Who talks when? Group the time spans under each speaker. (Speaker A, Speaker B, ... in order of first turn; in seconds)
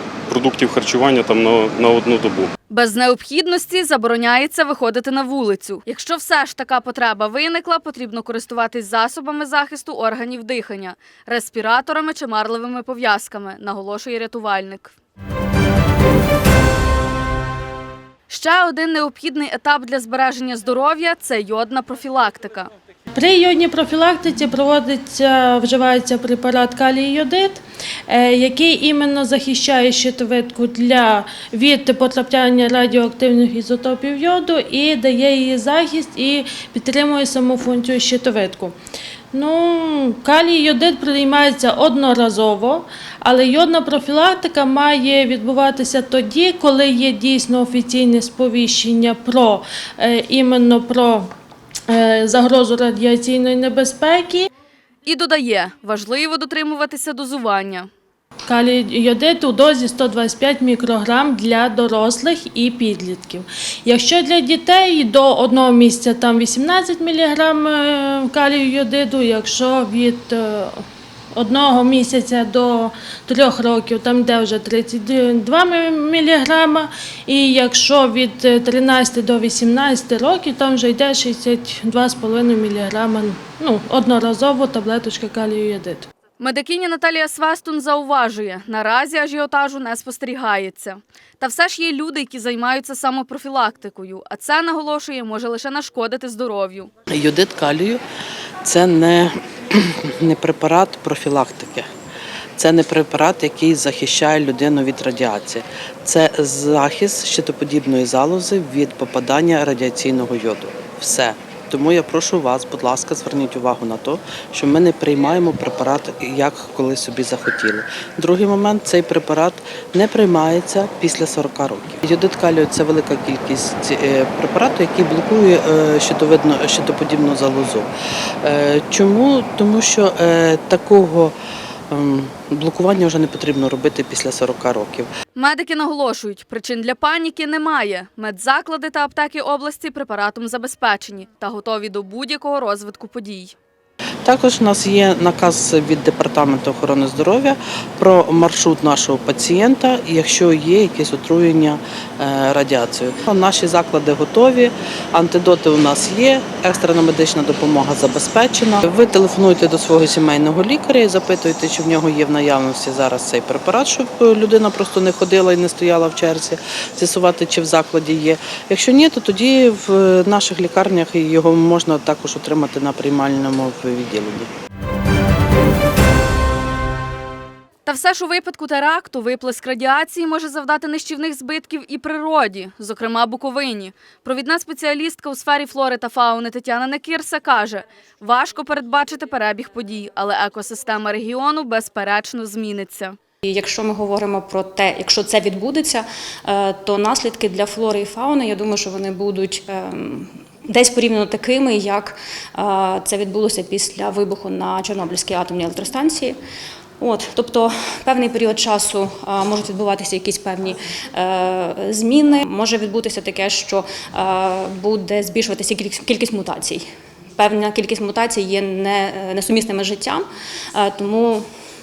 Speaker A: 0.4-2.4
Speaker B: 2.7-14.9, 18.3-22.7, 55.0-57.9, 86.4-96.9, 135.3-143.5, 177.8-193.2
Speaker C: 23.1-38.8, 39.3-51.3, 51.9-54.5, 58.5-70.8, 71.3-86.0
Speaker D: 97.1-98.0, 98.6-101.9, 102.6-127.9, 128.4-131.3, 131.9-135.1, 144.2-174.5
Speaker E: 193.4-206.3, 207.0-216.8, 217.4-221.4